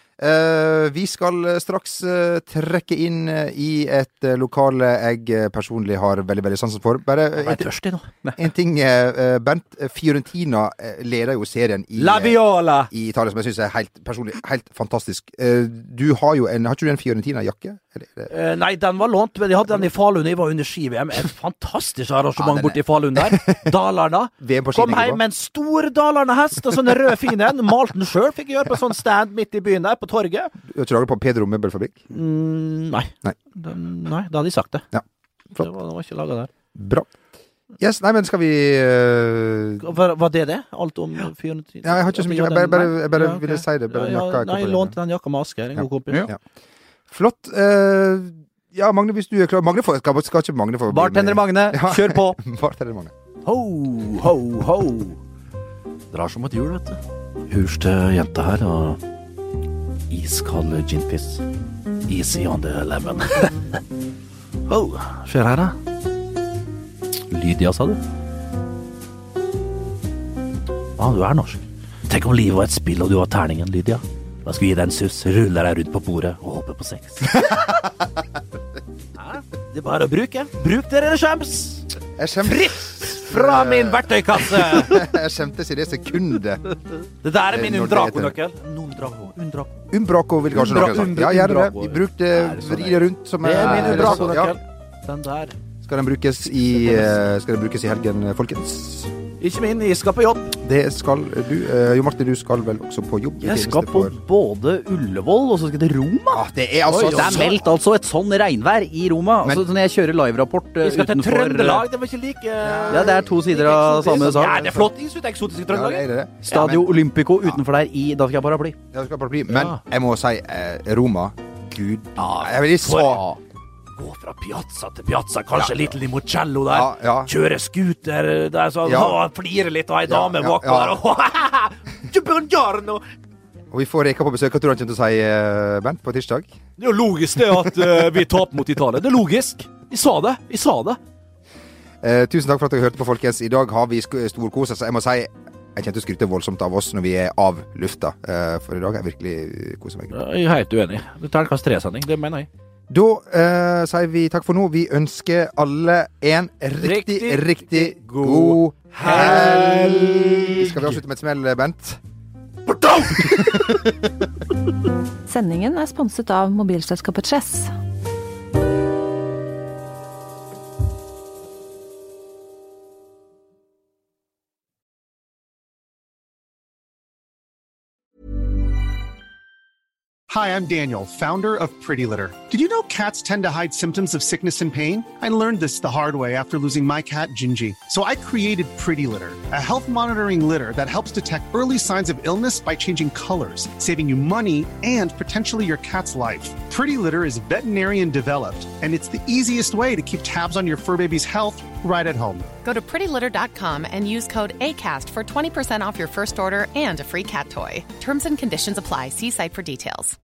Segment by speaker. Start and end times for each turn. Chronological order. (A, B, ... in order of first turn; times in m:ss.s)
0:00.2-0:07.7 A
0:07.4-0:08.1 B
0:08.4-0:18.3 A
0:12.0-0:12.9 B
0:18.3-0:30.5 B
0:22.4-0:23.7 A
0:24.4-0:25.2 A
0:30.6-0:32.0 A
0:32.1-0:34.8 B
0:34.9-0:35.7 A
0:35.6-0:36.5 B
0:36.7-0:37.1 A
0:37.8-0:39.9 A
0:39.8-0:46.2 B
0:41.8-0:44.9 A
0:45.8-0:46.4 A
0:47.1-0:53.1 A
0:50.9-0:52.4 C
0:53.4-0:55.2 B
0:56.1-0:59.0 B
1:00.1-1:01.4 B
1:02.1-1:03.5 B
1:04.7-1:05.8 B
1:07.3-1:08.0 B
1:11.0-1:17.6 B
1:17.3-1:17.8 A
1:19.2-1:21.8 B
1:22.2-1:26.7 A
1:22.4-1:25.1 B
1:27.2-1:29.8 B
1:27.5-1:28.3 A
1:29.9-1:34.6 A
1:30.5-1:32.0 B
1:32.3-1:33.0 C
1:33.4-1:35.6 B
1:33.6-1:34.5 C
1:35.8-1:39.1 A
1:36.6-1:37.2 B
1:39.4-1:40.5 B
1:40.5-1:44.1 A
1:43.4-1:46.5 C
1:46.3-1:47.7 A
1:46.9-1:47.5 B
1:47.0-1:51.8 C
1:50.8-1:56.0 B
1:52.6-1:54.9 A
1:52.9-1:54.7 C
1:55.6-1:57.6 A
1:56.5-1:58.8 C
1:58.9-2:03.2 A
1:59.5-1:59.8 B
2:02.2-2:03.4 C
2:04.0-2:13.0 B
2:05.6-2:05.9 A
2:06.7-2:07.3 A
2:08.8-2:09.2 A
2:10.0-2:11.0 A
2:13.7-2:16.5 A
2:16.8-2:21.0 B
2:22.0-2:30.2 A
2:30.1-2:32.5 B
2:32.9-2:42.0 A
2:36.8-2:41.0 B
2:42.7-2:43.7 B
2:43.2-2:43.9 A
2:45.3-2:47.7 D
3:00.3-3:22.4 E
3:22.6-3:30.2 F